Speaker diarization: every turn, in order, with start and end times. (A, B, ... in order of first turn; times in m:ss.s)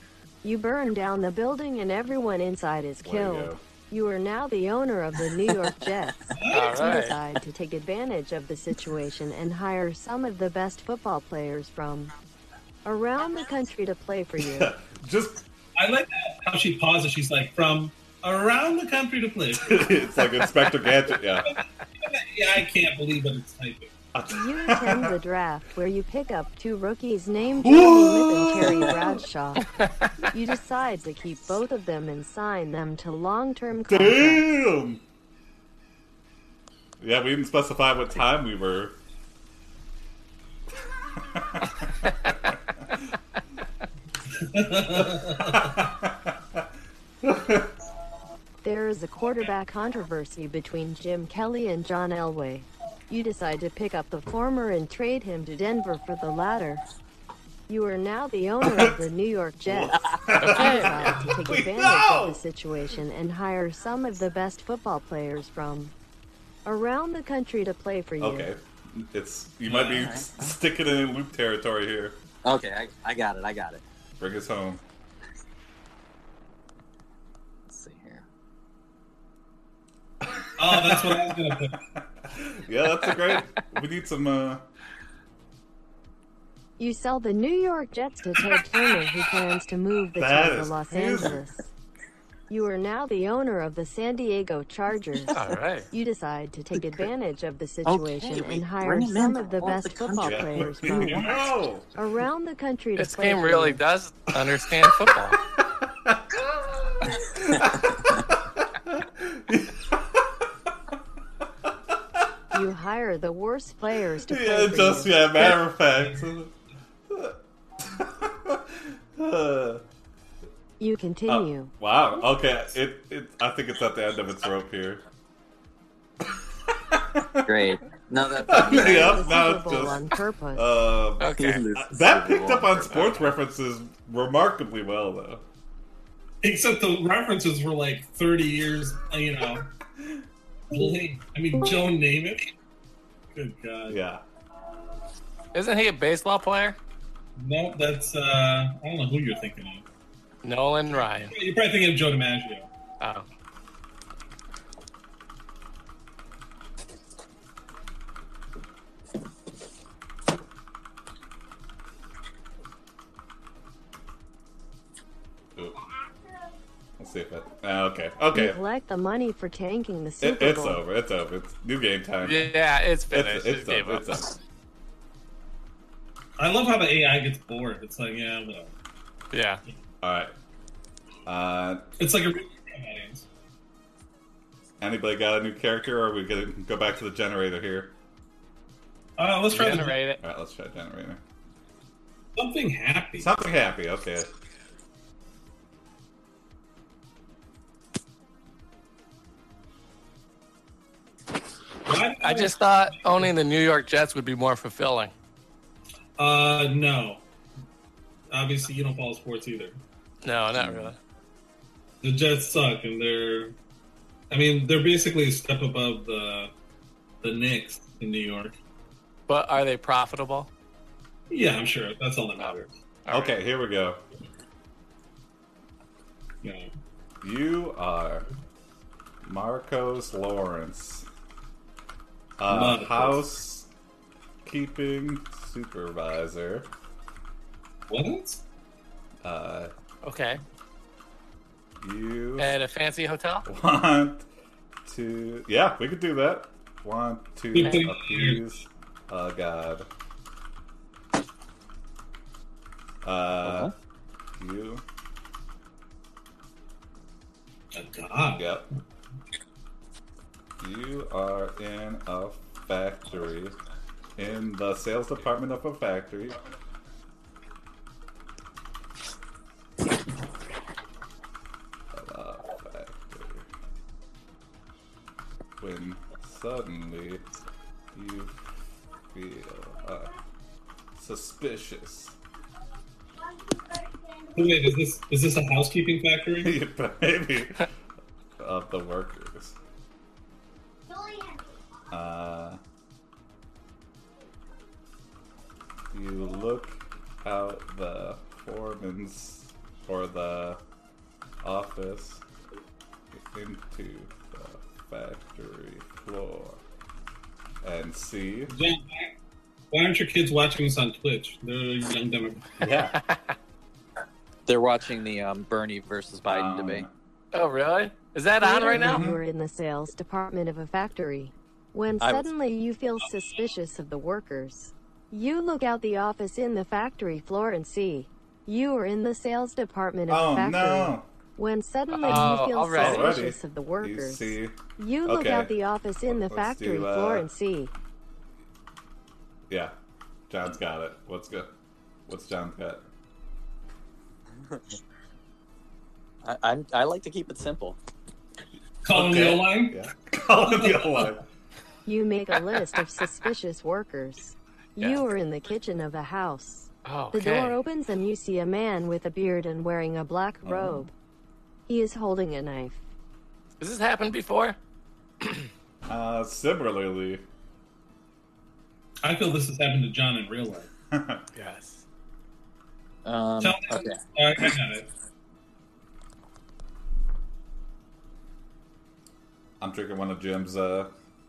0:00.4-0:12.1 A
0:03.0-0:03.6 B
0:06.3-0:06.8 C
0:06.5-0:07.2 D
0:12.8-0:14.7 A
0:14.4-0:15.4 B
0:15.8-0:20.0 C
0:19.6-0:21.5 B
0:21.4-0:23.9 C
0:24.1-0:25.2 B
0:24.3-0:29.7 A
0:27.6-0:29.2 B
0:30.3-0:34.4 A
0:33.9-0:35.0 B
0:37.0-0:39.0 B
0:41.3-0:42.3 B
0:44.4-0:45.8 C
0:44.9-0:46.7 B
0:47.2-0:47.7 B
0:48.6-0:56.8 A
0:57.7-1:05.9 A
0:58.6-0:59.0 B
0:59.6-1:02.4 B
1:00.4-1:01.2 D
1:06.6-1:08.5 A
1:08.2-1:12.2 B
1:09.7-1:10.0 C
1:09.9-1:10.5 E
1:12.4-1:13.8 E
1:14.2-1:14.8 B
1:17.7-1:18.2 E
1:20.2-1:24.6 B
1:20.6-1:21.8 C
1:26.8-1:31.7 A
1:30.2-1:31.4 B
1:32.5-1:35.4 A
1:35.3-1:35.9 D
1:35.9-1:41.4 A
1:37.8-1:40.6 E
1:40.2-1:41.9 B
1:42.0-1:43.8 A
1:43.0-1:45.4 D
1:44.9-1:50.5 B
1:51.6-1:52.2 B
1:52.5-1:55.6 A
1:54.3-1:56.5 B
1:57.1-1:59.8 B
2:00.8-2:01.7 A
2:01.3-2:05.0 B
2:06.7-2:07.6 B
2:07.4-2:09.9 E
2:08.4-2:15.4 B
2:08.5-2:10.7 A
2:11.2-2:11.6 D
2:11.4-2:13.0 E
2:12.9-2:13.3 D
2:16.4-2:19.7 C
2:20.0-2:20.2 B
2:20.7-2:22.5 C
2:23.3-2:24.0 C
2:23.9-2:24.2 B
2:25.5-2:26.8 D
2:27.4-2:29.8 C
2:30.4-2:31.3 D
2:31.3-2:32.7 C
2:33.0-2:33.2 D
2:47.0-2:48.6 B
2:48.3-2:50.8 A
2:50.2-2:52.5 B
2:52.2-2:54.2 D
2:53.1-2:54.3 B
2:56.4-2:58.7 C
2:59.3-2:59.6 D
3:00.0-3:00.3 B
3:01.3-3:01.9 B
3:02.0-3:03.2 C
3:04.8-3:08.0 B
3:09.2-3:10.1 C
3:09.5-3:10.2 D
3:10.2-3:11.2 B
3:12.4-3:13.3 C
3:13.2-3:14.3 B
3:21.8-3:23.3 C
3:22.2-3:25.1 D
3:26.2-3:27.2 C
3:28.3-3:29.8 C
3:30.2-3:31.0 D
3:30.6-3:30.9 B
3:32.0-3:33.6 C
3:34.3-3:36.5 C
3:37.2-3:38.6 C
3:39.3-3:40.5 D
3:41.3-3:42.7 C
3:43.1-3:43.4 D
3:43.1-3:44.0 B
3:46.4-3:46.7 C
3:47.2-3:48.3 B
3:49.2-3:51.1 B
3:52.4-3:53.7 B
3:52.5-3:53.2 C
3:54.4-3:56.7 B
3:57.9-3:58.4 C
3:59.2-3:59.7 B
4:00.0-4:00.4 D
4:01.8-4:02.6 B
4:02.4-4:03.5 D
4:03.5-4:04.3 B
4:04.8-4:09.9 B
4:07.5-4:08.4 C
4:13.0-4:13.7 B
4:13.4-4:13.7 E
4:14.4-4:14.8 B
4:17.7-4:18.6 C
4:18.4-4:18.7 B
4:20.6-4:23.6 B
4:24.2-4:26.4 B
4:31.9-4:33.5 B
4:35.6-4:37.2 B
4:37.9-4:38.4 B
4:39.1-4:40.2 B
4:41.0-4:42.2 B
4:44.3-4:46.5 C
4:46.4-4:47.7 B
4:48.4-4:49.6 B
4:51.9-4:52.6 B
4:55.9-5:00.6 B
5:01.4-5:02.2 B
5:03.1-5:06.6 B
5:07.6-5:08.6 B
5:08.5-5:09.2 C
5:09.7-5:12.5 C
5:12.6-5:13.0 B
5:14.5-5:16.9 E
5:16.3-5:16.9 B
5:17.3-5:19.0 D
5:18.4-5:37.7 A
5:18.8-5:19.2 B
5:22.0-5:22.3 E
5:30.1-5:31.1 B
5:31.9-5:33.2 D
5:32.1-5:35.6 B
5:36.1-5:37.3 B
5:39.5-5:39.7 B
5:40.3-5:41.5 B
5:42.1-5:42.9 B
5:46.2-5:47.8 E
5:48.8-5:49.8 C
5:48.9-5:51.2 B
5:50.4-5:51.1 C
5:51.9-6:00.9 A
5:56.8-5:57.6 D
6:00.4-6:00.9 B
6:01.7-6:02.8 A
6:03.6-6:04.6 D
6:05.9-6:07.2 B
6:09.0-6:10.7 C
6:10.9-6:11.2 B
6:11.4-6:11.8 D
6:13.0-6:14.0 E
6:13.4-6:14.9 C
6:19.6-6:20.9 B